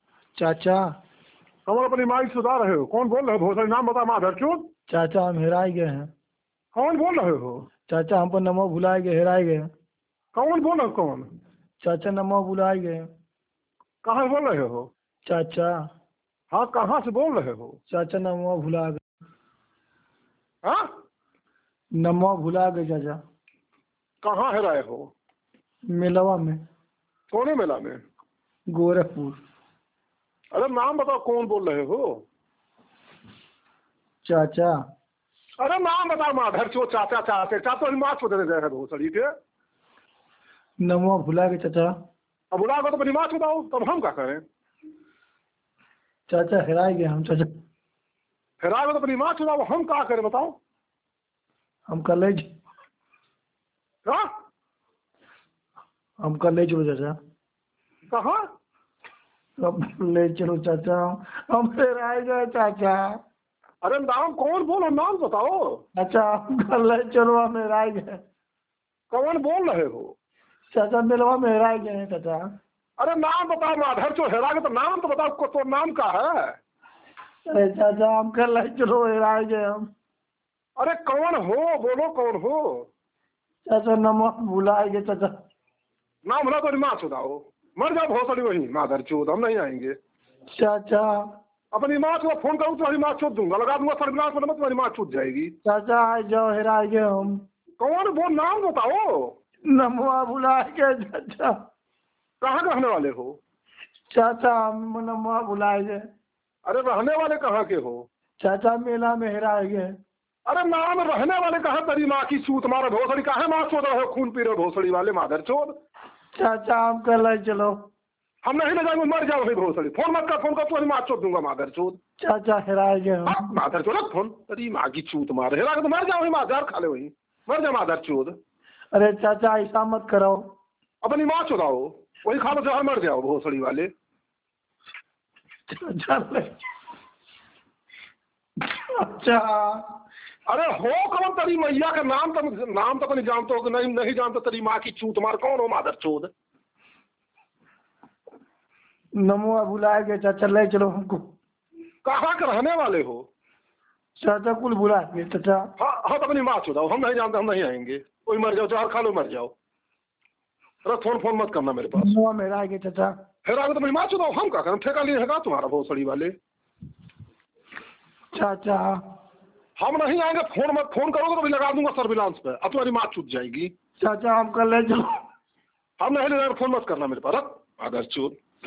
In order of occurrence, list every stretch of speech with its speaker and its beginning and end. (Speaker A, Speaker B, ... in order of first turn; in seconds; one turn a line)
Speaker A: 0.4-0.8
Speaker B: 1.6-4.7
Speaker A: 4.9-6.1
Speaker B: 6.7-7.7
Speaker A: 7.9-9.7
Speaker B: 10.3-11.3
Speaker A: 11.8-13.1
Speaker B: 14.0-14.9
Speaker A: 15.2-15.8
Speaker B: 16.5-17.8
Speaker A: 17.9-19.0
Speaker A: 22.0-23.2
Speaker B: 24.2-25.1
Speaker A: 25.9-26.6
Speaker B: 27.3-28.0
Speaker A: 28.7-29.4
Speaker B: 30.5-32.2
Speaker A: 34.2-34.7
Speaker B: 35.6-39.3
Speaker A: 40.8-41.9
Speaker B: 42.5-44.4
Speaker A: 46.3-47.5
Speaker B: 48.6-50.6
Speaker A: 51.9-52.5
Speaker A: 56.2-57.1
Speaker B: 58.1-58.4
Speaker A: 59.6-63.1
Speaker B: 63.8-65.8
Speaker A: 66.0-68.2
Speaker B: 69.1-70.1
Speaker A: 70.7-72.4
Speaker B: 73.0-76.6
Speaker A: 77.5-79.9
Speaker B: 80.8-82.9
Speaker A: 83.7-85.3
Speaker B: 86.2-89.9
Speaker A: 90.5-91.2
Speaker B: 91.7-95.5
Speaker A: 95.6-97.4
Speaker B: 97.8-99.3
Speaker A: 99.7-101.5
Speaker B: 102.4-103.4
Speaker A: 104.1-106.0
Speaker B: 106.7-108.0
Speaker A: 108.4-109.9
Speaker B: 110.5-115.8
Speaker A: 116.3-117.8
Speaker B: 118.4-122.0
Speaker A: 122.2-123.5
Speaker B: 123.2-128.3
Speaker A: 128.9-130.4
Speaker B: 131.0-133.9
Speaker A: 135.7-136.6
Speaker A: 138.6-139.8
Speaker B: 140.5-146.3
Speaker A: 149.2-151.3
Speaker B: 152.0-153.3
Speaker A: 154.2-155.7
Speaker B: 155.8-159.5
Speaker B: 160.8-162.1
Speaker A: 161.9-163.1
Speaker B: 163.4-166.3
Speaker A: 168.3-169.0
Speaker B: 169.8-173.7
Speaker A: 174.0-175.1
Speaker B: 176.0-178.3